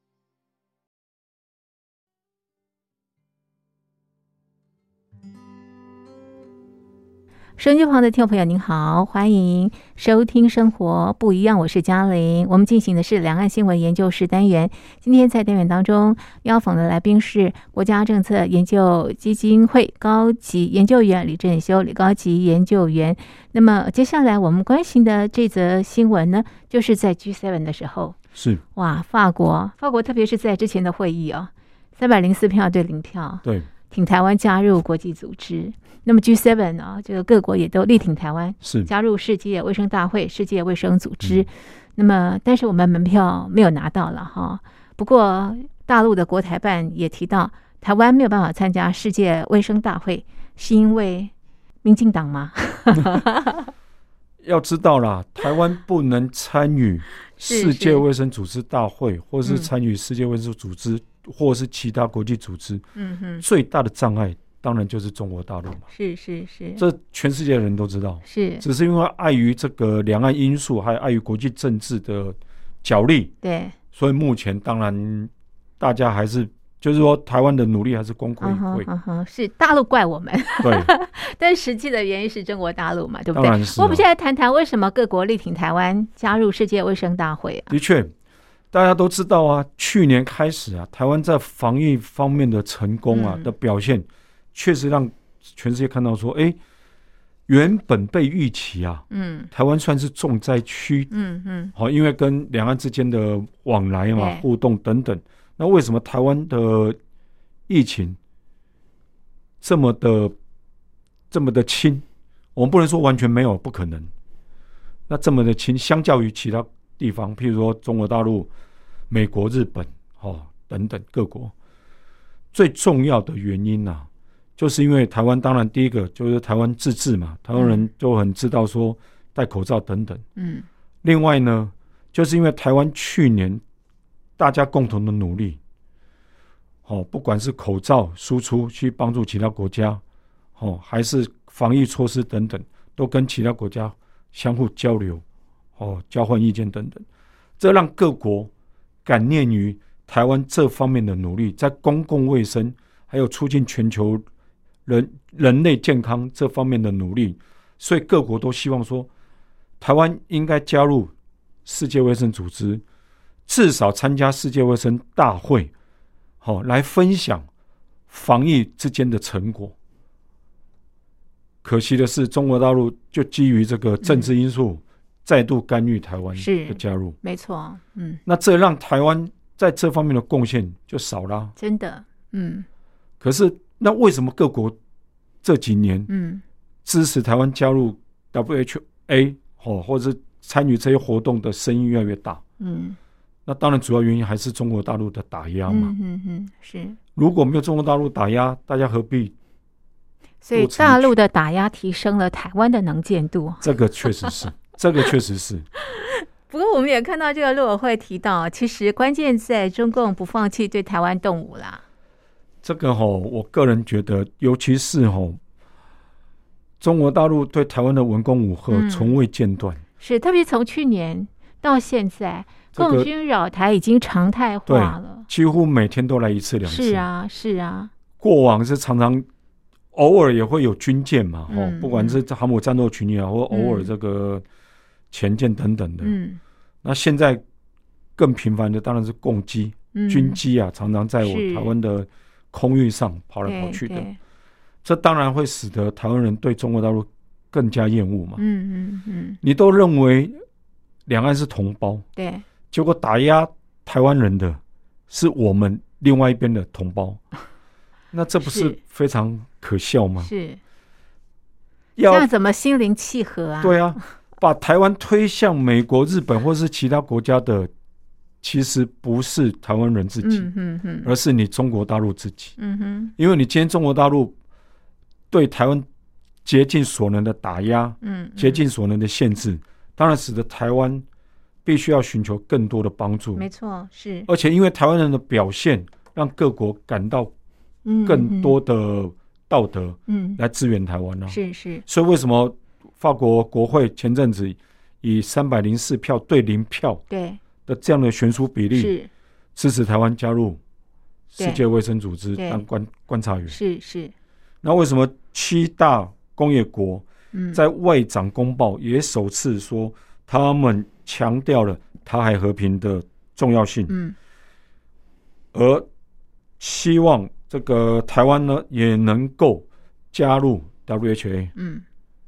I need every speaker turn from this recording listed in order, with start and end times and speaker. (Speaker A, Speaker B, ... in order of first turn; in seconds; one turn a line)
Speaker A: 7.6-28.2
Speaker B: 28.4-28.6
Speaker A: 28.8-51.3
Speaker B: 33.4-33.7
Speaker B: 38.6-38.9
Speaker A: 51.8-53.7
Speaker B: 54.4-62.8
Speaker A: 57.4-58.0
Speaker A: 63.0-63.4
Speaker B: 63.4-65.9
Speaker A: 65.9-66.8
Speaker B: 66.8-73.3
Speaker A: 68.3-68.7
Speaker A: 73.4-73.8
Speaker B: 73.9-78.9
Speaker A: 78.4-87.7
Speaker B: 80.6-80.9
Speaker B: 83.3-84.0
Speaker B: 87.7-88.1
Speaker B: 88.7-96.6
Speaker A: 93.1-93.5
Speaker B: 97.5-101.1
Speaker A: 99.1-99.5
Speaker A: 101.1-101.7
Speaker B: 101.8-107.0
Speaker A: 104.2-104.4
Speaker B: 107.7-108.2
Speaker B: 109.6-110.3
Speaker B: 111.3-114.1
Speaker B: 115.1-118.5
Speaker B: 119.1-121.5
Speaker B: 122.5-130.2
Speaker A: 127.6-127.8
Speaker A: 130.4-130.7
Speaker B: 131.0-133.6
Speaker B: 134.4-135.6
Speaker B: 136.9-140.0
Speaker B: 140.6-145.2
Speaker B: 145.8-147.1
Speaker B: 147.6-148.5
Speaker B: 149.1-154.2
Speaker B: 154.9-159.1
Speaker B: 159.8-161.1
Speaker B: 161.7-162.8
Speaker B: 163.5-165.7
Speaker B: 166.4-167.5
Speaker B: 168.1-169.7
Speaker B: 171.6-177.2
Speaker A: 174.0-174.3
Speaker A: 176.3-178.2
Speaker B: 178.2-181.6
Speaker A: 181.6-182.7
Speaker B: 183.2-184.8
Speaker B: 185.4-186.1
Speaker A: 186.1-186.4
Speaker B: 186.8-192.4
Speaker A: 192.6-193.0
Speaker B: 193.5-195.9
Speaker A: 195.7-197.0
Speaker B: 197.2-199.3
Speaker A: 200.4-203.6
Speaker B: 200.5-201.2
Speaker B: 203.6-205.7
Speaker A: 205.8-211.8
Speaker B: 212.6-215.4
Speaker B: 216.8-219.8
Speaker A: 218.7-219.2
Speaker A: 220.0-225.3
Speaker B: 222.7-223.1
Speaker B: 224.7-227.1
Speaker A: 226.7-227.9
Speaker B: 228.2-229.3
Speaker B: 229.9-234.4
Speaker A: 231.5-232.2
Speaker A: 233.5-233.9
Speaker B: 235.1-236.2
Speaker A: 236.0-236.4
Speaker B: 236.8-237.4
Speaker B: 238.2-244.1
Speaker A: 239.9-240.4
Speaker A: 241.2-241.7
Speaker A: 243.4-244.2
Speaker B: 244.8-248.4
Speaker A: 248.4-249.4
Speaker B: 249.4-250.4
Speaker B: 251.1-252.1
Speaker A: 252.2-252.4
Speaker B: 252.7-257.2
Speaker B: 258.1-260.3
Speaker A: 258.4-258.8
Speaker A: 260.2-260.6
Speaker B: 262.0-262.3
Speaker A: 262.1-264.0
Speaker B: 263.6-267.7
Speaker B: 268.4-270.5
Speaker A: 270.2-271.1
Speaker B: 271.0-272.6
Speaker A: 272.6-273.1
Speaker B: 273.2-274.3
Speaker B: 275.3-275.9
Speaker B: 276.4-281.1
Speaker A: 278.0-278.6
Speaker B: 281.6-283.4
Speaker A: 283.4-284.3
Speaker B: 284.3-287.3
Speaker A: 287.9-288.6
Speaker B: 288.1-297.0
Speaker A: 290.1-290.4
Speaker A: 291.3-291.8
Speaker A: 297.1-297.4
Speaker B: 297.7-298.9
Speaker A: 298.7-299.1
Speaker B: 299.6-300.6
Speaker B: 301.3-303.6
Speaker A: 302.4-302.6
Speaker A: 303.5-304.1
Speaker B: 304.6-313.9
Speaker A: 307.3-307.6
Speaker A: 313.9-314.2
Speaker B: 315.5-315.9
Speaker B: 316.6-321.5
Speaker A: 321.6-321.9